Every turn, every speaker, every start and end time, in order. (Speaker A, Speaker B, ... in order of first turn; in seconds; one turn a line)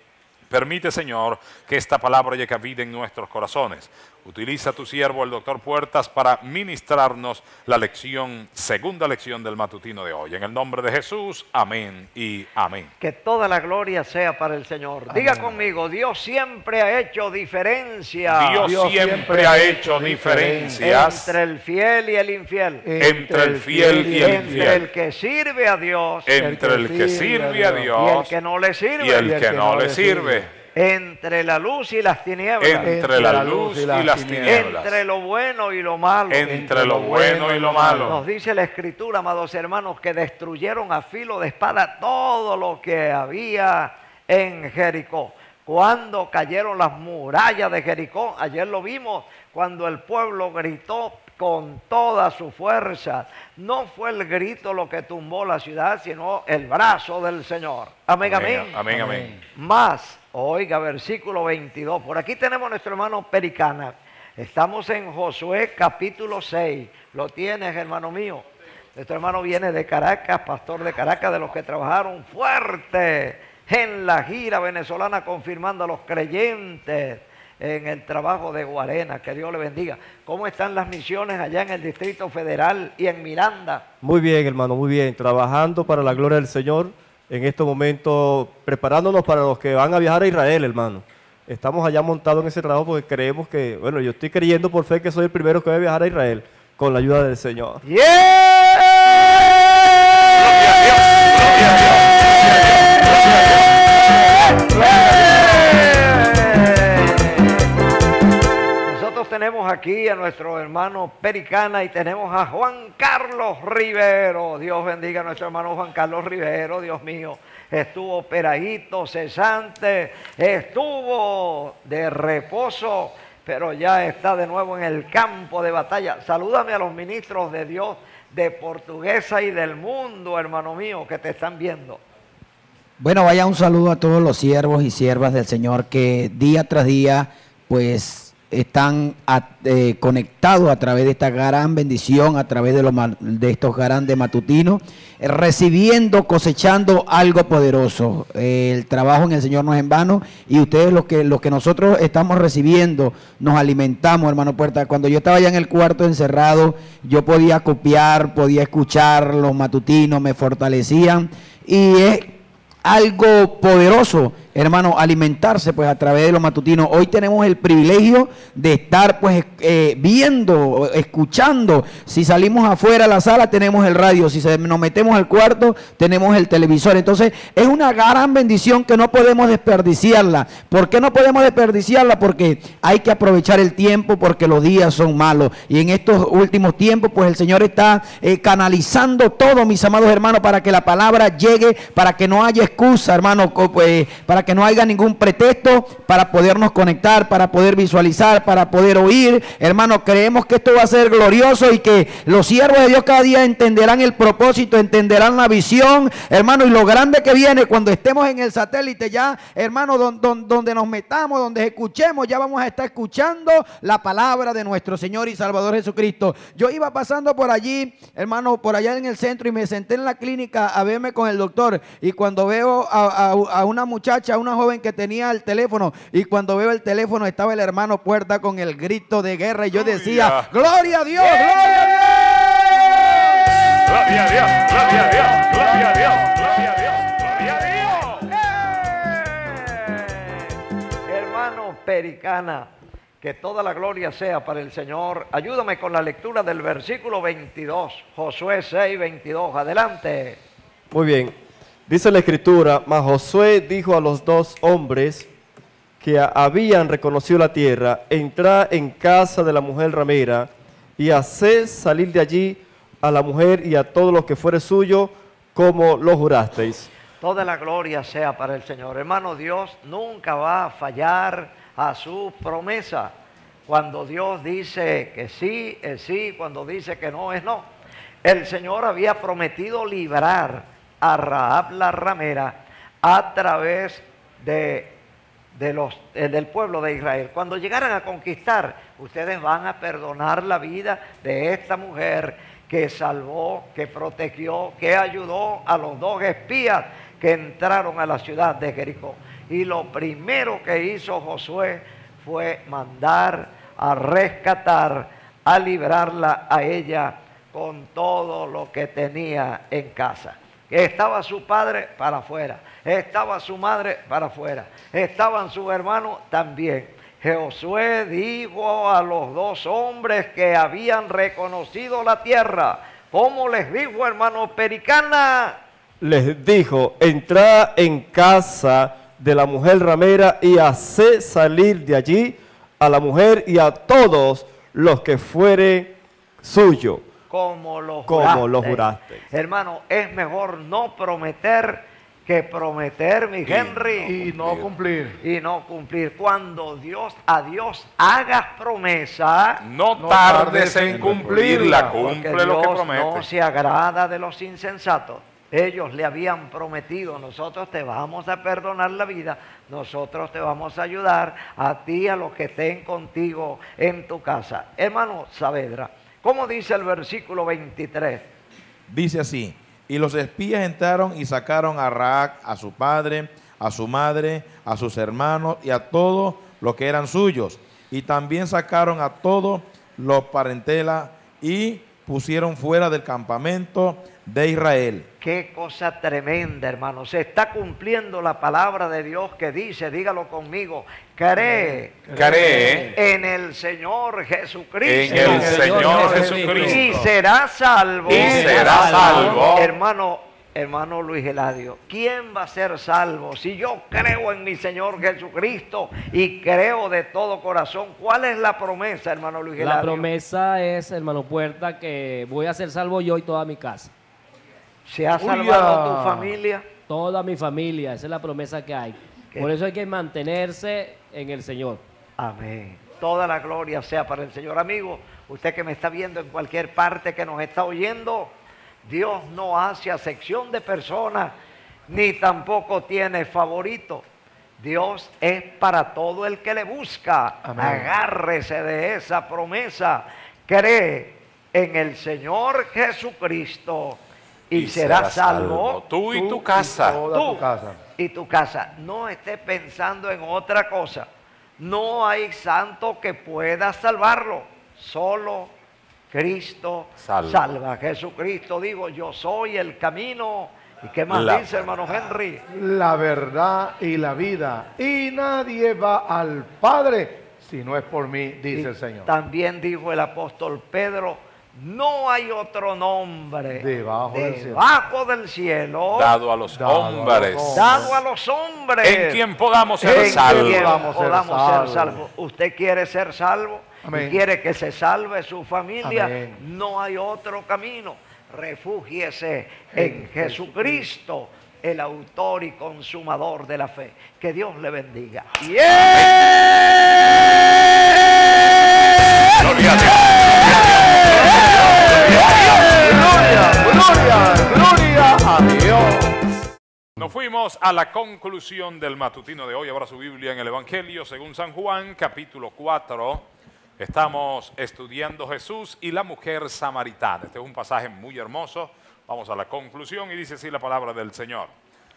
Speaker A: 0.5-12.9
Speaker B: 13.0-18.6
Speaker C: 15.1-15.6
Speaker A: 18.3-21.4
Speaker C: 18.6-20.9
Speaker B: 20.8-22.9
Speaker C: 22.8-24.8
Speaker A: 23.0-24.8
Speaker B: 24.2-26.3
Speaker A: 26.3-28.3
Speaker C: 26.3-28.0
Speaker B: 28.0-29.2
Speaker A: 29.0-30.5
Speaker C: 29.1-30.5
Speaker B: 30.7-32.9
Speaker A: 32.6-35.0
Speaker C: 32.8-34.8
Speaker B: 34.5-36.5
Speaker A: 36.3-38.2
Speaker C: 36.4-38.2
Speaker B: 38.0-58.8
Speaker A: 58.2-59.4
Speaker B: 59.5-68.5
Speaker B: 69.0-83.8
Speaker D: 84.0-97.8
Speaker B: 97.8-98.3
Speaker A: 100.5-101.0
Speaker B: 104.7-107.5
Speaker B: 108.8-132.0
Speaker E: 133.0-232.2
Speaker A: 229.7-230.5
Speaker A: 231.2-231.7
Speaker A: 233.8-238.3
Speaker B: 238.2-240.4
Speaker B: 241.1-250.4
Speaker D: 250.9-251.4
Speaker D: 251.9-255.3
Speaker D: 256.0-266.9
Speaker B: 267.2-273.1
Speaker B: 273.7-277.7
Speaker B: 278.2-284.9
Speaker B: 285.5-325.6
Speaker D: 326.0-337.1
Speaker B: 337.3-344.2
Speaker D: 338.1-339.2
Speaker A: 343.4-344.7
Speaker C: 344.1-345.2
Speaker B: 345.2-349.6
Speaker A: 349.6-353.3
Speaker C: 350.0-352.0
Speaker B: 351.9-368.3
Speaker F: 368.9-385.1
Speaker B: 385.2-395.9
Speaker C: 391.4-392.9
Speaker A: 392.1-392.9
Speaker A: 394.9-397.1
Speaker C: 395.1-396.8
Speaker G: 395.1-396.9
Speaker B: 396.6-410.1
Speaker A: 398.1-399.7
Speaker G: 398.1-399.6
Speaker G: 409.6-413.9
Speaker B: 414.9-416.7
Speaker C: 415.2-416.4
Speaker G: 416.9-421.8
Speaker B: 422.2-428.3
Speaker B: 428.9-431.3
Speaker B: 431.9-434.0
Speaker B: 434.6-445.8
Speaker C: 437.4-437.9
Speaker A: 444.5-447.1
Speaker C: 446.1-447.8
Speaker B: 447.1-451.1
Speaker B: 451.6-455.5
Speaker B: 456.1-462.4
Speaker A: 457.0-457.4
Speaker A: 461.1-461.7
Speaker C: 462.5-469.1
Speaker B: 468.5-476.1
Speaker C: 473.5-474.7
Speaker A: 475.9-478.0
Speaker C: 476.5-478.0
Speaker B: 477.5-479.2
Speaker A: 478.8-480.9
Speaker B: 479.8-495.4
Speaker C: 479.8-482.1
Speaker C: 483.8-484.2
Speaker C: 485.8-486.4
Speaker C: 489.7-490.9
Speaker C: 495.4-496.1
Speaker A: 499.4-502.6
Speaker C: 500.9-506.2
Speaker A: 507.0-521.5